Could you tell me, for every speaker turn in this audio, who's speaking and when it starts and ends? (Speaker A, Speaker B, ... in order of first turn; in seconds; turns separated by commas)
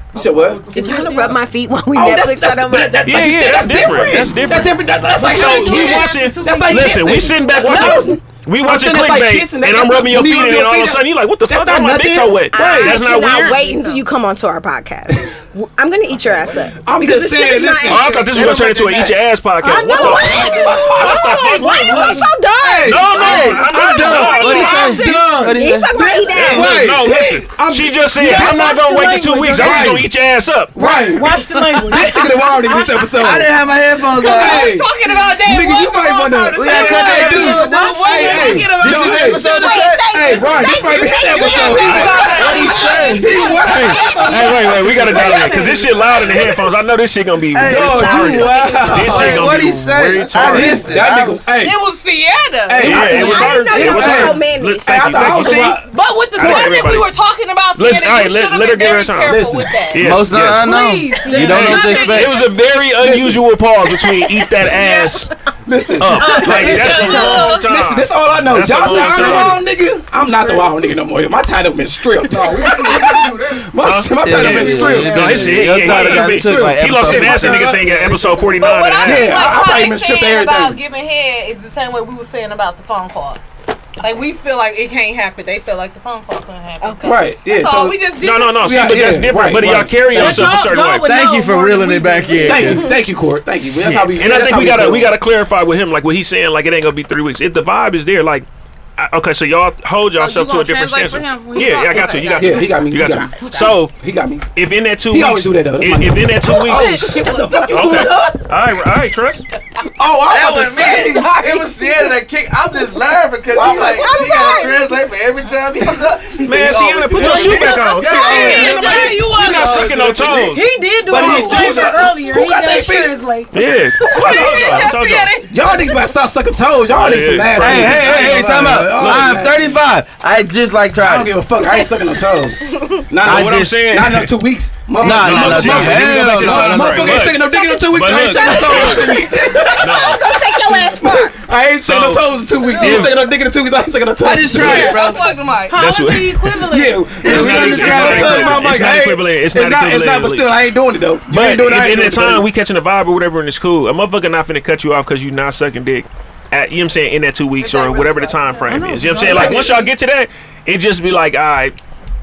Speaker A: 0.1-0.7, Speaker B: 0.7-3.1, Speaker C: 0.7-1.3, Speaker A: 1.9-13.0, Speaker D: 3.0-13.7, Speaker C: 5.1-7.2, Speaker B: 7.7-8.2, Speaker B: 12.5-18.1, Speaker A: 16.8-19.2, Speaker D: 17.9-22.3, Speaker B: 19.6-26.8, Speaker A: 19.8-28.9, Speaker D: 22.8-24.9, Speaker E: 23.1-26.9, Speaker D: 26.3-30.8, Speaker C: 28.2-30.0, Speaker A: 29.5-30.1, Speaker A: 30.7-33.5, Speaker C: 30.8-33.2, Speaker F: 31.5-32.2, Speaker E: 33.1-34.8, Speaker F: 34.1-39.7, Speaker A: 34.2-39.4, Speaker E: 36.6-40.4, Speaker C: 36.7-38.6, Speaker B: 39.2-44.5, Speaker A: 40.1-45.6, Speaker F: 40.6-44.5, Speaker E: 41.6-45.5, Speaker D: 41.7-42.2, Speaker D: 44.1-50.9, Speaker C: 45.0-45.9, Speaker F: 45.2-46.6, Speaker E: 47.5-51.5, Speaker A: 47.6-49.5, Speaker A: 50.3-51.8, Speaker F: 51.5-53.9, Speaker A: 52.7-56.8, Speaker D: 52.8-55.8, Speaker B: 52.8-55.1, Speaker F: 55.8-60.1, Speaker D: 56.4-57.1, Speaker D: 57.8-60.7, Speaker A: 59.2-59.7, Speaker E: 60.0-62.4, Speaker C: 60.4-62.1, Speaker F: 61.3-62.5, Speaker D: 61.3-65.3, Speaker A: 63.0-63.4, Speaker F: 64.7-65.2, Speaker A: 65.7-78.3, Speaker D: 66.0-69.6, Speaker F: 66.2-67.6, Speaker C: 66.7-67.5, Speaker D: 73.8-79.5, Speaker E: 74.2-77.8, Speaker F: 78.5-83.4, Speaker A: 79.0-80.8, Speaker F: 84.0-88.6, Speaker B: 86.8-87.1, Speaker A: 87.0-88.0, Speaker D: 88.2-91.1, Speaker A: 88.5-90.1, Speaker C: 90.0-92.8, Speaker E: 90.2-93.0, Speaker A: 92.4-95.2, Speaker E: 93.6-94.2, Speaker D: 94.2-103.9, Speaker F: 100.2-102.9, Speaker A: 102.3-104.4, Speaker D: 104.5-109.5, Speaker A: 105.1-108.3, Speaker E: 107.7-108.3, Speaker A: 110.0-111.4, Speaker E: 110.2-120.6, Speaker B: 110.8-111.7, Speaker A: 113.5-114.1, Speaker B: 113.7-114.8, Speaker D: 116.4-120.6, Speaker A: 117.1-119.1, Speaker F: 117.5-120.0, Speaker C: 118.1-119.3, Speaker C: 120.4-125.8, Speaker A: 121.0-123.2, Speaker E: 121.2-121.8, Speaker D: 123.5-125.4, Speaker A: 125.5-129.8, Speaker D: 126.9-129.6, Speaker E: 127.5-131.3, Speaker A: 131.0-145.0, Speaker E: 133.2-133.8, Speaker D: 133.2-134.3, Speaker E: 135.0-137.3, Speaker D: 135.0-139.3, Speaker B: 137.4-141.3, Speaker D: 139.8-140.2, Speaker D: 141.8-142.2, Speaker D: 142.8-143.2, Speaker E: 144.2-145.3, Speaker F: 144.5-145.8, Speaker C: 145.7-147.2, Speaker D: 145.7-146.6, Speaker A: 146.7-152.5, Speaker E: 147.2-148.8, Speaker D: 147.2-150.5, Speaker D: 151.3-161.7, Speaker F: 157.6-158.6, Speaker C: 158.7-159.9, Speaker A: 159.1-159.8